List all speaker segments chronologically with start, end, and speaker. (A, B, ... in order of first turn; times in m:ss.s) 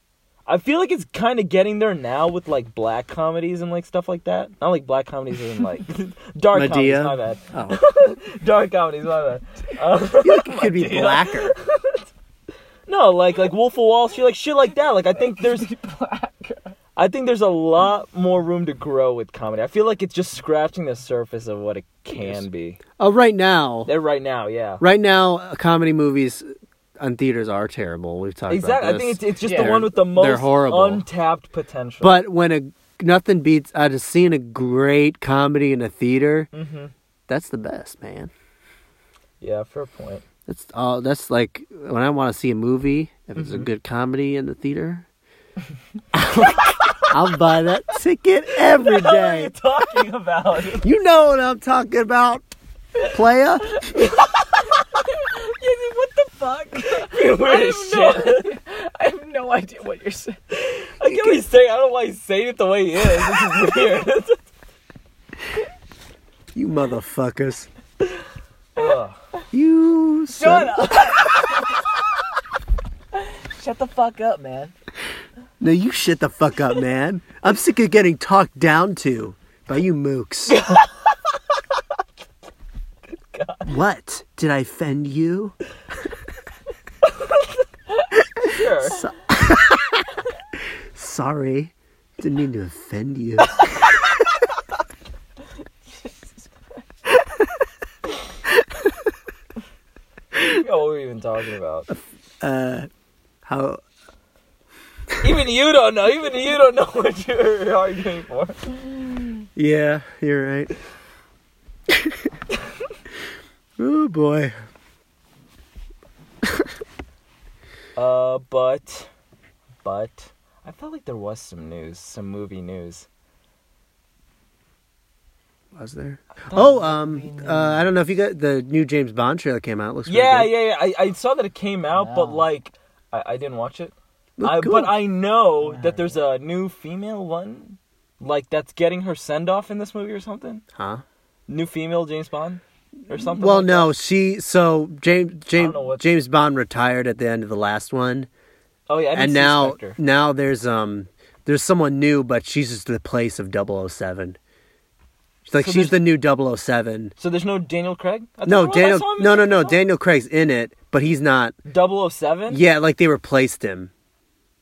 0:00.4-0:12.0 A
0:06.5-0:07.8 B
0:10.2-0:11.5 B
0:12.9-0:15.7 A
0:15.4-0:16.7 C
0:17.0-0:22.8 A
0:22.2-0:22.4 B
0:23.0-0:23.9 B
0:23.8-0:24.8 A
0:24.8-0:26.5 B
0:27.0-0:31.0 B
0:28.5-0:32.2 A
0:29.4-0:29.8 C
0:32.0-0:36.5 B
0:36.5-0:36.9 A
0:37.3-0:38.3 B
0:39.4-0:40.2 A
0:40.5-0:45.0 B
0:43.4-0:43.7 A
0:46.1-0:49.5 B
0:46.8-0:47.1 A
0:48.7-0:50.9 A
0:50.8-0:52.4 B
0:53.0-0:54.0 B
0:53.9-0:54.4 A
0:55.1-1:00.4 C
0:56.8-0:58.5 A
1:00.5-1:04.4 A
1:01.0-1:01.4 B
1:06.5-1:07.7 B
1:08.8-1:09.2 A
1:09.5-1:11.1 B
1:10.3-1:11.7 C
1:13.4-1:14.7 C
1:15.6-1:20.6 B
1:20.5-1:21.2 A
1:23.3-1:23.7 A
1:23.6-1:25.5 B
1:28.4-1:29.1 A
1:28.4-1:30.1 B
1:30.9-1:33.7 B
1:40.5-1:41.9 A
1:41.9-1:42.9 B
1:43.4-1:43.8 B
1:45.2-1:48.8 A
1:49.6-1:50.7 B
1:51.9-1:52.3 B
1:53.8-1:54.5 B
1:58.0-1:59.1 A
1:59.8-2:03.1 A
2:05.7-2:10.5 B
2:06.5-2:07.9 C
2:10.0-2:20.6 A
2:11.9-2:12.5 C
2:14.4-2:14.9 B
2:15.6-2:16.2 C
2:20.7-2:21.0 B
2:21.5-2:23.9 A
2:23.1-2:28.3 B
2:25.6-2:26.0 A
2:28.9-2:30.0 A
2:29.1-2:34.4 B
2:35.5-2:37.1 B
2:35.6-2:36.0 A
2:37.2-2:39.8 A
2:38.4-2:41.6 B
2:41.7-2:42.6 A
2:42.5-2:43.9 B